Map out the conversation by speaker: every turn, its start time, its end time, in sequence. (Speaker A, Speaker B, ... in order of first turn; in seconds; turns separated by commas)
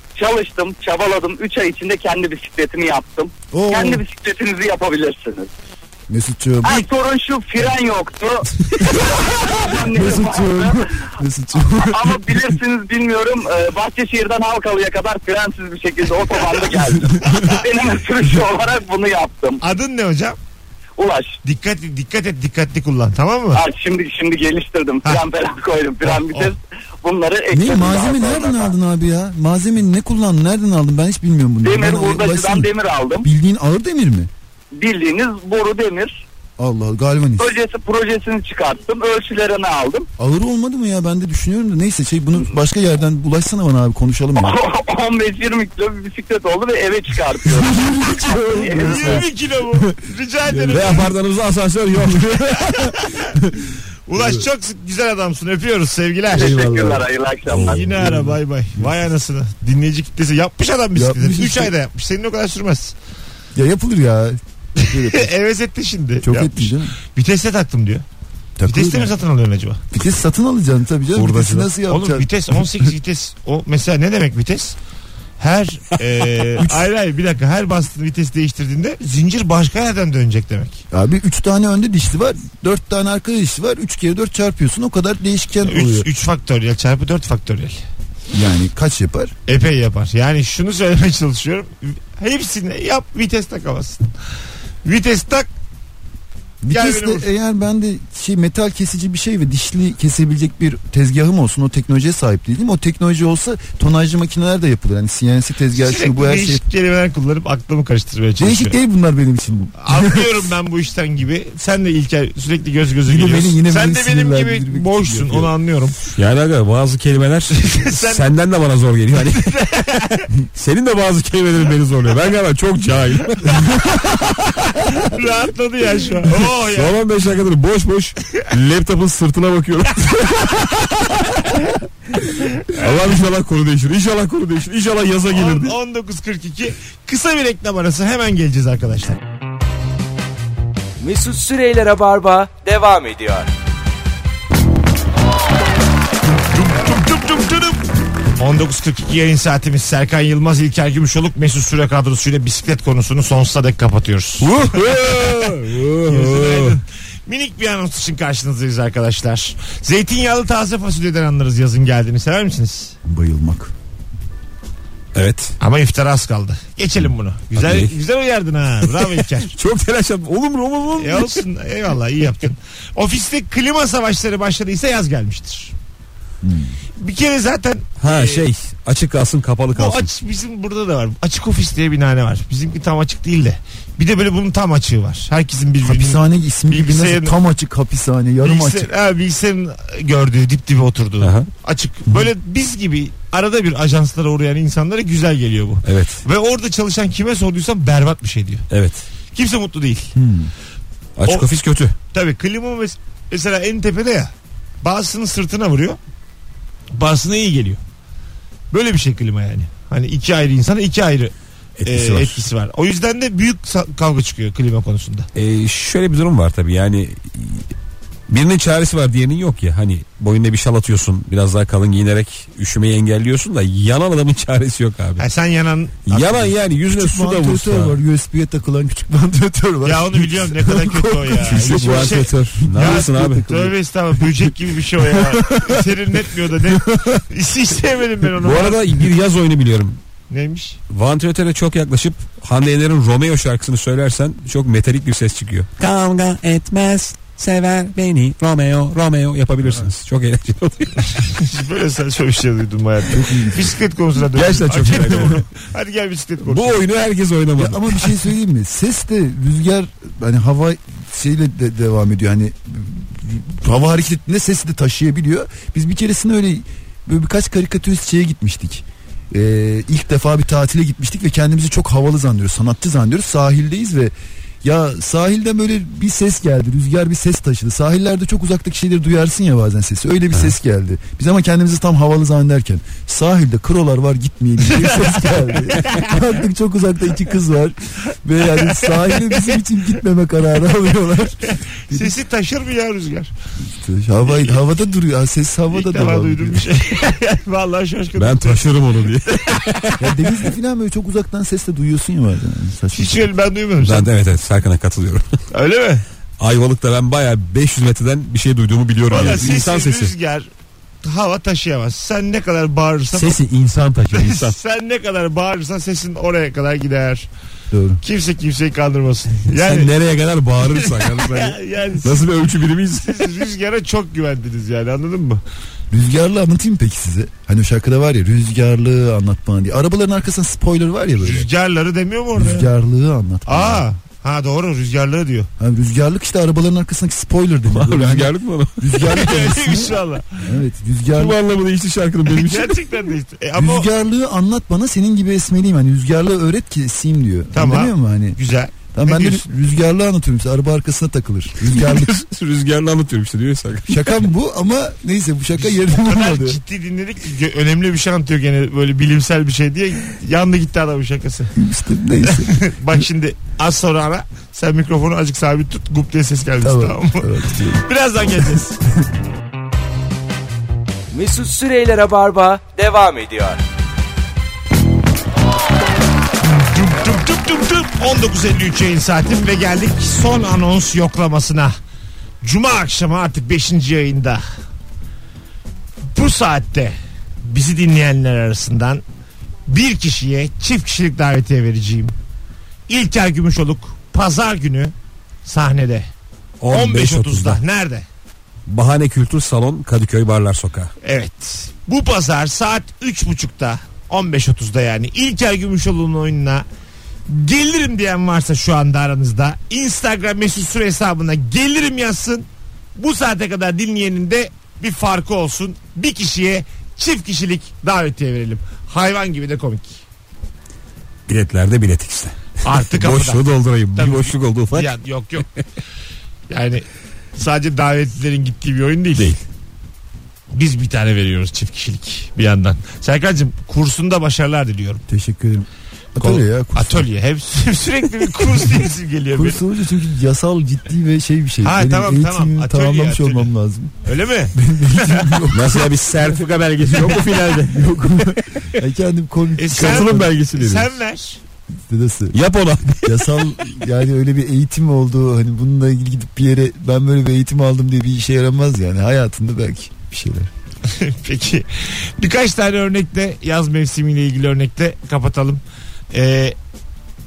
Speaker A: 0.2-5.5, Speaker B: 3.5-4.0, Speaker B: 6.1-6.8, Speaker A: 6.6-10.9, Speaker B: 8.8-12.6, Speaker A: 11.7-19.6, Speaker C: 17.2-17.6, Speaker C: 19.6-20.4, Speaker A: 21.0-21.4, Speaker C: 21.4-23.6, Speaker A: 23.5-28.7, Speaker C: 26.0-26.5, Speaker B: 27.5-32.7, Speaker A: 31.6-33.3, Speaker B: 33.2-34.3, Speaker A: 34.8-36.1, Speaker B: 36.6-37.5, Speaker A: 37.4-40.1, Speaker B: 40.2-44.6, Speaker A: 44.4-47.8, Speaker D: 47.5-49.2, Speaker B: 47.6-49.2, Speaker A: 48.4-49.2, Speaker C: 48.8-51.1, Speaker D: 50.6-53.6, Speaker C: 52.6-53.3, Speaker C: 54.1-56.7, Speaker B: 56.3-57.1, Speaker A: 56.3-57.8, Speaker D: 57.5-58.3, Speaker C: 57.7-62.9, Speaker B: 57.9-58.3, Speaker B: 60.9-61.7, Speaker B: 63.5-65.3, Speaker C: 64.8-68.0, Speaker B: 66.2-66.9, Speaker B: 68.6-69.1, Speaker C: 68.7-69.8, Speaker B: 69.9-72.3, Speaker D: 71.1-71.7, Speaker C: 71.9-74.8, Speaker C: 75.4-80.8, Speaker B: 80.9-86.1, Speaker C: 85.6-87.8, Speaker B: 88.3-89.3, Speaker C: 89.5-94.1, Speaker C: 94.8-95.5, Speaker B: 96.6-106.6, Speaker C: 96.7-97.2, Speaker C: 105.7-108.8, Speaker B: 108.4-110.3, Speaker C: 109.8-116.0, Speaker B: 113.0-115.5, Speaker D: 116.1-124.8, Speaker C: 117.5-118.2, Speaker C: 119.3-120.3, Speaker C: 124.6-127.0, Speaker D: 126.4-131.5, Speaker C: 132.4-132.9, Speaker D: 132.6-135.8, Speaker C: 135.3-139.2, Speaker E: 141.0-143.5, Speaker C: 146.5-147.8, Speaker C: 148.4-162.9, Speaker D: 154.4-156.8, Speaker B: 163.0-163.7, Speaker D: 165.1-165.5, Speaker C: 165.6-169.5, Speaker D: 167.6-167.9, Speaker D: 168.9-171.4, Speaker C: 171.0-175.7, Speaker B: 176.4-176.7, Speaker C: 177.0-178.4, Speaker D: 178.0-180.1, Speaker C: 179.7-187.4, Speaker B: 185.8-188.9, Speaker C: 188.4-198.6, Speaker D: 191.2-191.5, Speaker D: 195.8-196.2, Speaker D: 198.7-199.0, Speaker C: 199.3-200.1, Speaker B: 200.1-200.5, Speaker D: 201.2-201.9, Speaker C: 202.1-206.0, Speaker C: 206.9-207.8, Speaker C: 208.7-211.3, Speaker D: 211.8-212.3, Speaker C: 211.8-215.3, Speaker D: 215.3-217.7, Speaker D: 218.3-225.2, Speaker C: 225.2-226.5, Speaker D: 226.1-228.0, Speaker B: 226.9-233.7, Speaker C: 229.8-239.0, Speaker D: 231.4-233.5, Speaker D: 236.8-237.2, Speaker D: 238.4-240.0, Speaker C: 240.3-240.8, Speaker D: 240.9-251.2, Speaker C: 251.1-256.8, Speaker B: 253.1-253.7, Speaker D: 254.3-255.4, Speaker D: 256.4-258.1, Speaker B: 257.6-292.1, Speaker C: 284.6-286.2, Speaker C: 288.4-289.6, Speaker C: 291.4-293.3, Speaker B: 293.7-296.7, Speaker C: 294.3-294.6, Speaker C: 295.7-300.0, Speaker D: 298.1-299.9, Speaker B: 300.0-303.3, Speaker C: 302.9-304.1, Speaker D: 303.8-305.2, Speaker C: 305.5-306.0, Speaker D: 306.4-310.1, Speaker C: 309.1-310.5, Speaker C: 311.0-313.4, Speaker D: 313.1-314.6, Speaker C: 314.1-317.3, Speaker B: 317.7-318.0, Speaker C: 318.0-319.9, Speaker D: 319.5-323.3, Speaker C: 320.6-325.4, Speaker B: 325.9-331.5, Speaker C: 331.2-332.7, Speaker B: 332.4-333.8, Speaker C: 333.4-335.5, Speaker B: 335.6-341.4, Speaker D: 337.7-339.2, Speaker C: 339.0-340.5, Speaker D: 341.1-342.8, Speaker C: 342.3-343.9, Speaker B: 343.6-348.4, Speaker C: 347.5-349.5, Speaker B: 348.9-352.2, Speaker D: 351.6-354.1, Speaker B: 353.9-356.6, Speaker C: 355.6-361.5, Speaker B: 361.6-363.0, Speaker C: 362.2-368.8, Speaker B: 366.6-367.9, Speaker E: 371.1-373.6, Speaker C: 376.4-381.7, Speaker C: 382.4-384.4, Speaker C: 386.1-389.0, Speaker C: 389.7-392.1, Speaker C: 392.9-396.1, Speaker D: 396.6-397.6, Speaker C: 396.7-398.0, Speaker D: 398.7-400.9, Speaker C: 401.0-406.6, Speaker C: 407.2-420.0, Speaker D: 421.3-424.9, Speaker C: 422.6-425.5, Speaker C: 426.5-426.8, Speaker C: 427.4-429.3, Speaker D: 429.1-429.4, Speaker C: 430.5-435.0, Speaker B: 435.1-437.1, Speaker C: 436.2-439.6, Speaker B: 439.3-443.9, Speaker C: 441.6-443.5, Speaker C: 444.0-445.5, Speaker B: 444.5-445.9, Speaker D: 445.5-448.6, Speaker B: 446.8-450.3, Speaker C: 449.6-451.4, Speaker D: 449.7-450.9, Speaker B: 451.9-452.4, Speaker D: 452.3-453.3, Speaker B: 453.0-460.5, Speaker C: 460.9-466.6